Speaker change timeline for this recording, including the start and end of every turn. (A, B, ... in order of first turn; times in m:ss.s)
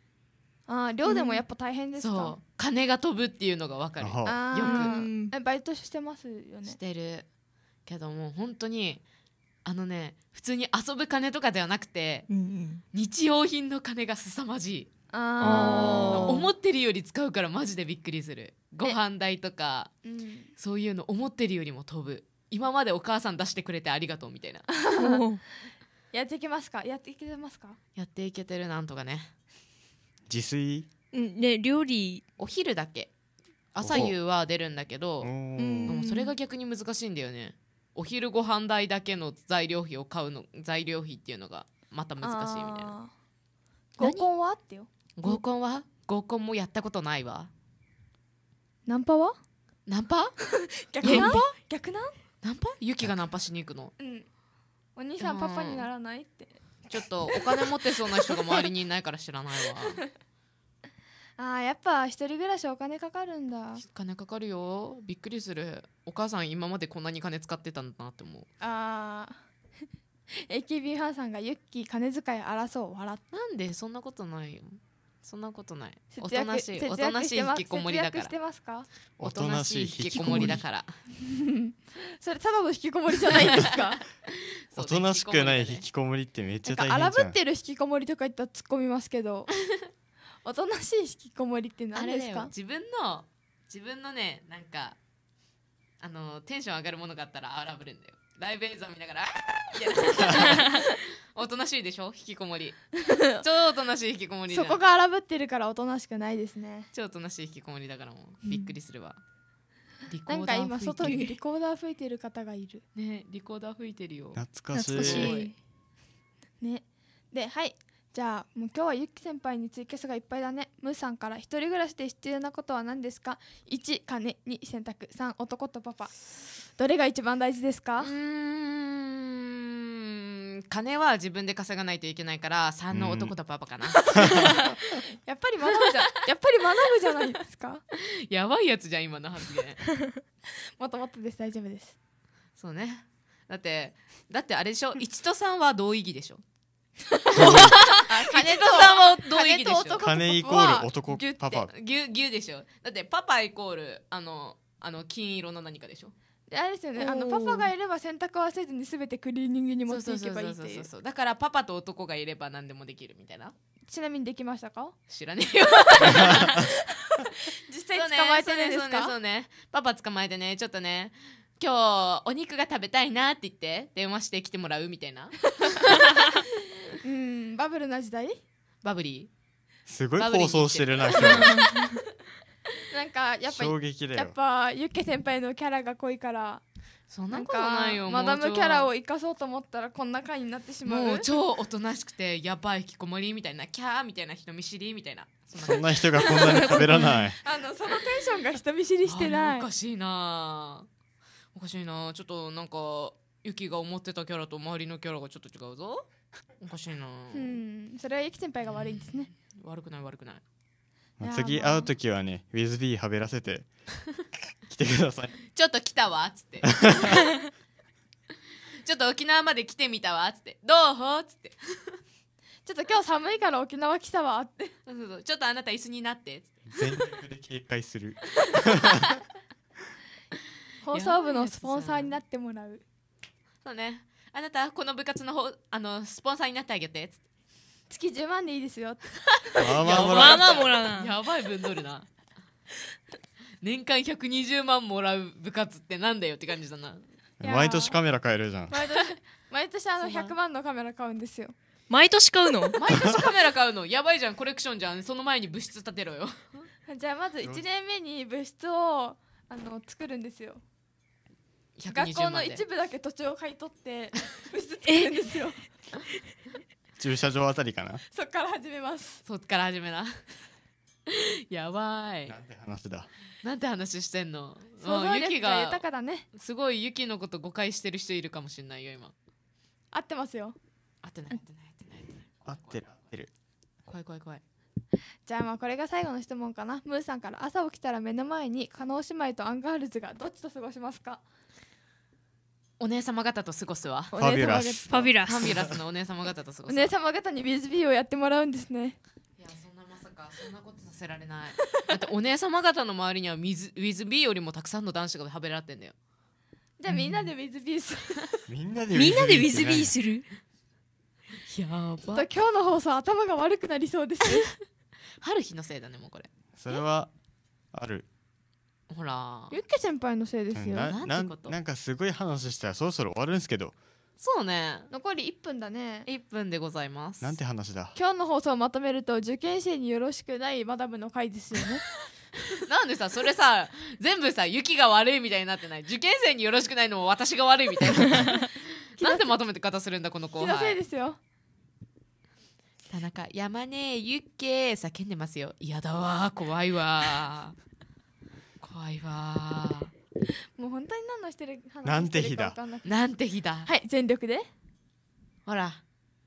0:00.7-0:02.4 A
0:01.1-0:01.4 B
0:02.0-0:05.0 C
0:04.0-0:04.4 D
0:04.2-0:06.8 A
0:04.6-0:05.3 B
0:06.6-0:07.2 C
0:07.8-0:09.0 C
0:09.6-0:12.3 C
0:12.3-0:12.8 B
0:12.9-0:14.9 C
0:15.1-0:16.5 A
0:15.4-0:16.4 B
0:15.4-0:19.9 C
0:20.0-0:20.5 A
0:20.6-0:24.7 C
0:24.8-0:25.2 A
0:25.0-0:25.4 B
0:26.1-0:27.8 A
0:28.0-0:29.3 C
0:30.3-0:30.9 D
0:31.1-0:32.2 B
0:32.4-0:33.1 C
0:33.7-0:35.3 C
0:33.8-0:34.1 D
0:35.2-0:35.9 D
0:35.6-0:36.3 B
0:35.9-0:42.9 C
0:42.2-0:43.1 A
0:44.0-0:44.9 A
0:44.0-0:44.3 B
0:45.2-0:47.5 C
0:48.8-0:49.4 A
0:49.9-0:50.3 C
0:50.8-0:52.1 A
0:51.0-0:51.5 C
0:51.0-0:51.4 B
0:52.4-0:53.9 C
0:54.0-0:54.3 A
0:55.0-0:56.6 A
0:55.2-0:55.8 C
0:56.9-1:00.0 C
0:57.3-0:58.6 A
1:01.4-1:03.8 A
1:03.8-1:08.5 C
1:08.6-1:09.4 A
1:10.3-1:13.2 A
1:13.3-1:18.3 C
1:16.1-1:18.9 A
1:19.2-1:20.6 D
1:19.2-1:21.0 C
1:21.2-1:24.0 A
1:23.3-1:25.9 C
1:24.8-1:27.4 D
1:26.6-1:29.5 A
1:30.4-1:32.5 A
1:31.9-1:35.0 C
1:36.0-1:44.8 C
1:40.4-1:40.8 B
1:43.0-1:43.4 A
1:44.5-1:46.9 A
1:46.9-1:49.2 C
1:48.4-1:48.7 B
1:50.1-1:51.3 C
1:50.3-1:52.8 A
1:52.9-1:54.4 C
1:54.3-1:55.4 D
1:54.7-1:55.5 B
1:54.9-1:55.5 C
1:56.6-2:08.1 A
2:08.0-2:14.6 C
2:12.9-2:13.3 D
2:14.1-2:14.6 D
2:14.3-2:17.8 A
2:17.9-2:19.8 C
2:20.8-2:22.0 A
2:22.6-2:26.4 C
2:27.2-2:31.7 A
2:27.4-2:30.1 C
2:27.4-2:27.9 B
2:30.0-2:31.7 D
2:31.7-2:36.1 C
2:36.5-2:40.9 A
2:37.0-2:37.6 B
2:39.9-2:43.5 C
2:43.9-2:45.0 A
2:45.1-2:46.6 C
2:46.0-2:46.5 D
2:46.0-2:46.6 A
2:47.5-2:49.1 A
2:47.9-2:55.9 C
2:57.0-2:58.4 A
2:58.8-2:59.3 C
2:59.9-3:01.6 D
3:00.2-3:01.6 C
3:01.3-3:01.9 B
3:01.4-3:01.9 A
3:02.9-3:06.6 A
3:03.5-3:04.3 D
3:07.1-3:08.9 C
3:07.3-3:11.3 A
3:10.8-3:17.1 C
3:15.6-3:17.4 D
3:16.4-3:16.8 A
3:17.4-3:19.7 A
3:19.0-3:20.9 C
3:21.5-3:26.1 C
3:26.6-3:27.6 C
3:27.3-3:29.3 A
3:28.7-3:30.4 C
3:31.2-3:33.7 D
3:31.2-3:31.9 A
3:34.6-3:35.3 D
3:35.5-3:37.3 C
3:36.6-3:37.3 D
3:38.8-3:42.0 C
3:42.6-3:44.7 A
3:44.8-3:46.6 C
3:46.7-3:49.2 D
3:50.8-3:52.8 A
3:50.9-3:52.1 C
3:53.6-3:57.2 C
3:57.9-3:59.2 A
3:59.6-4:00.7 D
3:59.6-4:02.1 C
3:59.9-4:01.1 B
4:03.6-4:07.0 C
4:07.4-4:08.8 D
4:07.4-4:08.0 A
4:08.7-4:11.5 A
4:10.0-4:10.3 C
4:11.9-4:12.8 B
4:12.8-4:16.7 C
4:12.9-4:13.2 D
4:16.9-4:20.6 A
4:21.8-4:22.6 C
4:21.9-4:25.6 A
4:24.8-4:25.1 B
4:27.0-4:28.0 D
4:28.1-4:29.2 A
4:29.2-4:30.2 C
4:31.1-4:32.4 C
4:32.2-4:33.1 D
4:33.4-4:39.1 C
4:34.8-4:36.3 A
4:39.9-4:40.6 A
4:41.0-4:42.8 C
4:42.4-4:43.3 D
4:43.9-4:44.4 C
4:45.2-4:51.2 A
4:52.8-4:54.1 C
4:54.1-4:55.1 A
4:54.2-4:55.8 D
4:54.9-4:55.5 B
4:55.2-4:56.9 C
4:56.7-4:59.0 A
4:59.4-5:05.9 C
5:06.8-5:08.3 A
5:06.9-5:07.2 B
5:08.5-5:09.9 D
5:08.9-5:10.3 B
5:11.5-5:12.3 C
5:12.1-5:14.5 A
5:15.2-5:16.3 C
5:16.6-5:17.1 D
5:17.7-5:18.0 D
5:18.9-5:19.6 C
5:19.5-5:20.9 A
5:20.5-5:23.7 D
5:20.8-5:21.5 C
5:24.2-5:24.9 C
5:24.9-5:26.1 A
5:26.0-5:27.4 C
5:27.2-5:28.0 D
5:28.0-5:31.8 A
5:32.6-5:40.8 C
5:39.0-5:39.4 A
5:40.4-5:41.2 A
5:42.9-5:47.6 C
5:48.6-5:49.9 C
5:50.6-5:52.9 A
5:51.8-5:52.6 D
5:52.8-5:53.7 C
5:53.6-5:54.5 A
5:55.5-5:55.8 C